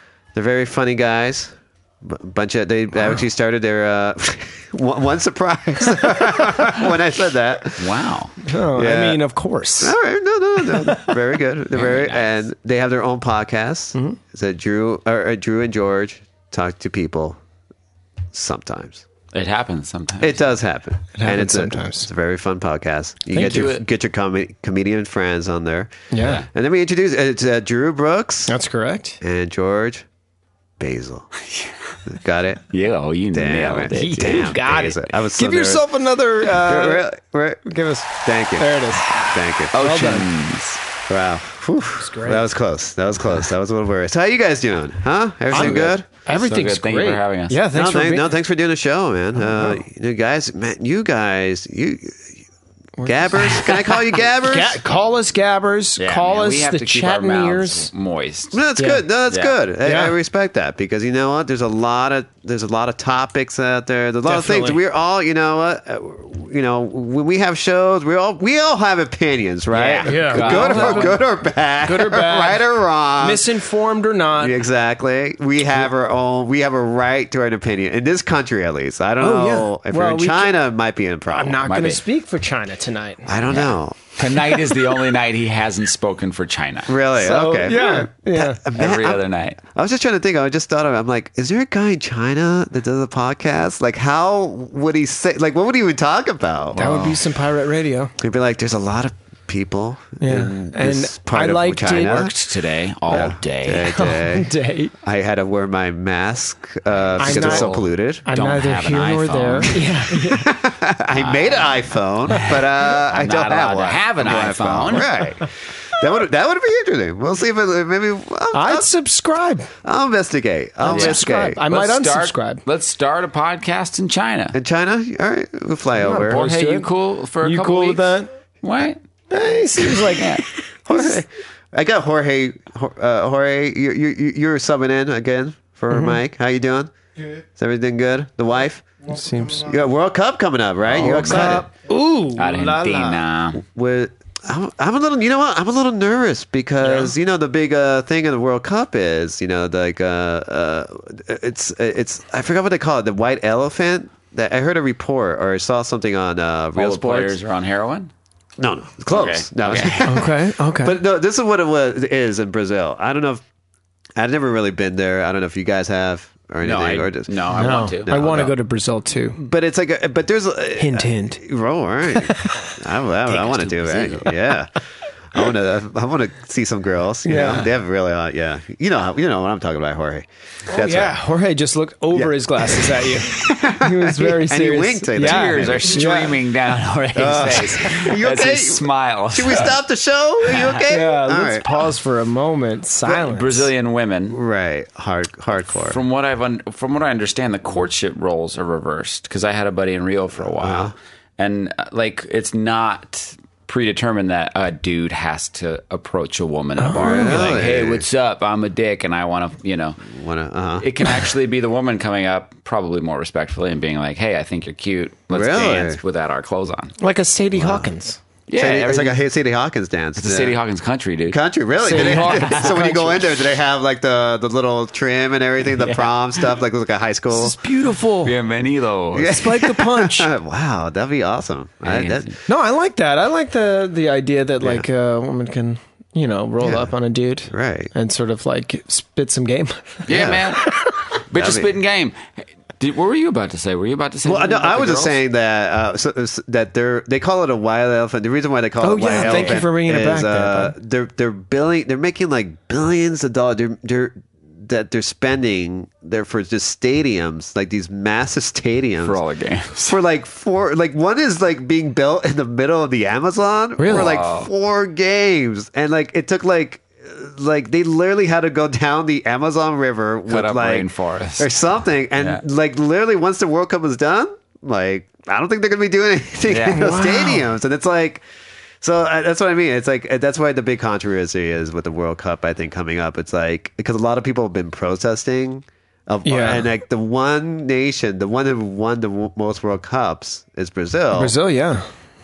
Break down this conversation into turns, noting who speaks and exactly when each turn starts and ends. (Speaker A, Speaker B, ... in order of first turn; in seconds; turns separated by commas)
Speaker A: 0.3-8.0, Speaker B: 7.8-8.3, Speaker C: 8.5-10.0, Speaker A: 8.7-9.2, Speaker A: 9.8-17.4, Speaker C: 10.7-11.1, Speaker B: 11.8-12.4, Speaker A: 18.3-19.0, Speaker B: 19.3-20.4, Speaker A: 20.2-28.5, Speaker C: 21.1-22.1, Speaker B: 23.3-23.8, Speaker C: 23.4-23.7, Speaker C: 26.1-26.4, Speaker B: 26.2-26.5, Speaker C: 28.5-29.2, Speaker A: 29.2-30.1, Speaker A: 30.8-31.3, Speaker A: 32.1-32.6, Speaker B: 32.7-34.5, Speaker A: 33.3-35.9, Speaker C: 33.9-37.0, Speaker A: 36.4-37.6, Speaker C: 37.6-39.1, Speaker A: 38.1-39.7, Speaker B: 39.1-40.8, Speaker C: 39.8-40.3, Speaker A: 41.1-46.1, Speaker C: 42.0-42.4, Speaker B: 45.5-47.6, Speaker C: 45.5-48.3, Speaker A: 47.7-52.4, Speaker C: 49.4-49.8, Speaker C: 53.0-57.9, Speaker A: 53.0-54.8, Speaker B: 56.0-58.6, Speaker A: 58.5-73.5, Speaker C: 58.8-59.0, Speaker B: 59.3-59.5, Speaker C: 59.8-60.1, Speaker C: 64.2-64.8, Speaker B: 69.7-71.2, Speaker C: 70.0-71.2, Speaker C: 71.8-72.7, Speaker C: 73.2-74.6, Speaker A: 74.4-81.6, Speaker C: 79.2-80.6, Speaker C: 81.3-83.3, Speaker B: 81.7-82.0, Speaker A: 83.3-84.2, Speaker B: 83.5-87.0, Speaker A: 86.9-96.8, Speaker C: 87.2-88.6, Speaker B: 88.8-89.6, Speaker C: 96.8-98.1, Speaker B: 96.8-97.2, Speaker A: 98.2-102.3, Speaker C: 100.2-102.3, Speaker B: 101.9-103.9, Speaker A: 103.1-104.5, Speaker C: 103.8-104.9, Speaker A: 105.0-108.3, Speaker B: 107.0-109.8, Speaker C: 107.2-107.7, Speaker C: 108.3-110.5, Speaker A: 110.2-118.9, Speaker B: 111.2-115.1, Speaker C: 118.5-119.7, Speaker A: 119.8-121.6, Speaker C: 120.8-122.6, Speaker B: 120.9-124.6, Speaker A: 124.5-126.4, Speaker C: 126.0-126.9, Speaker B: 126.3-129.0, Speaker C: 127.4-128.3, Speaker C: 129.3-130.3, Speaker B: 130.2-130.4, Speaker A: 130.8-136.9, Speaker C: 135.9-136.2, Speaker A: 137.6-138.8, Speaker C: 139.1-139.7, Speaker A: 139.6-141.7, Speaker B: 140.9-141.6, Speaker C: 141.0-143.2, Speaker B: 142.4-143.6, Speaker A: 143.6-157.4, Speaker C: 146.8-147.1, Speaker B: 156.8-158.1, Speaker A: 158.6-163.4, Speaker B: 159.1-160.2, Speaker C: 160.1-161.0, Speaker A: 164.2-168.5, Speaker B: 166.6-168.5, Speaker C: 167.6-169.4, Speaker A: 169.4-174.7, Speaker C: 170.8-171.4, Speaker C: 172.2-172.8, Speaker B: 173.3-174.3, Speaker A: 175.3-181.2, Speaker C: 177.3-177.6, Speaker B: 177.4-177.7, Speaker C: 180.7-186.3, Speaker A: 182.1-186.1, Speaker B: 185.2-189.8, Speaker A: 187.2-191.7, Speaker B: 190.5-190.9, Speaker C: 190.9-193.7, Speaker B: 193.3-194.4, Speaker A: 194.3-196.0, Speaker B: 195.7-210.1, Speaker A: 200.6-200.9, Speaker C: 206.8-207.4, Speaker A: 207.0-208.1, Speaker A: 210.1-210.9, Speaker B: 210.8-216.9, Speaker A: 215.3-216.0, Speaker C: 217.0-218.2, Speaker A: 217.5-217.9, Speaker B: 218.5-219.2, Speaker A: 218.6-220.6, Speaker B: 220.2-222.7, Speaker A: 221.3-227.6, Speaker C: 221.8-223.4, Speaker B: 225.8-226.1, Speaker C: 227.3-228.3, Speaker B: 228.2-229.4, Speaker A: 229.1-232.4, Speaker C: 229.3-230.3, Speaker B: 231.8-232.3, Speaker C: 232.5-240.9, Speaker A: 234.6-234.9, Speaker A: 236.6-236.9, Speaker A: 237.5-237.9, Speaker B: 240.1-240.7, Speaker A: 240.1-240.4, Speaker B: 241.3-245.2, Speaker A: 241.3-241.7, Speaker A: 244.2-259.2, Speaker C: 248.8-250.7, Speaker B: 249.2-249.6, Speaker B: 259.0-260.0, Speaker A: 259.9-278.2, Speaker C: 263.8-264.1, Speaker B: 263.9-264.5, Speaker B: 270.3-271.5, Speaker B: 276.5-276.9, Speaker C: 276.8-277.4, Speaker A: 278.8-291.4, Speaker C: 286.2-286.7, Speaker C: 291.1-291.9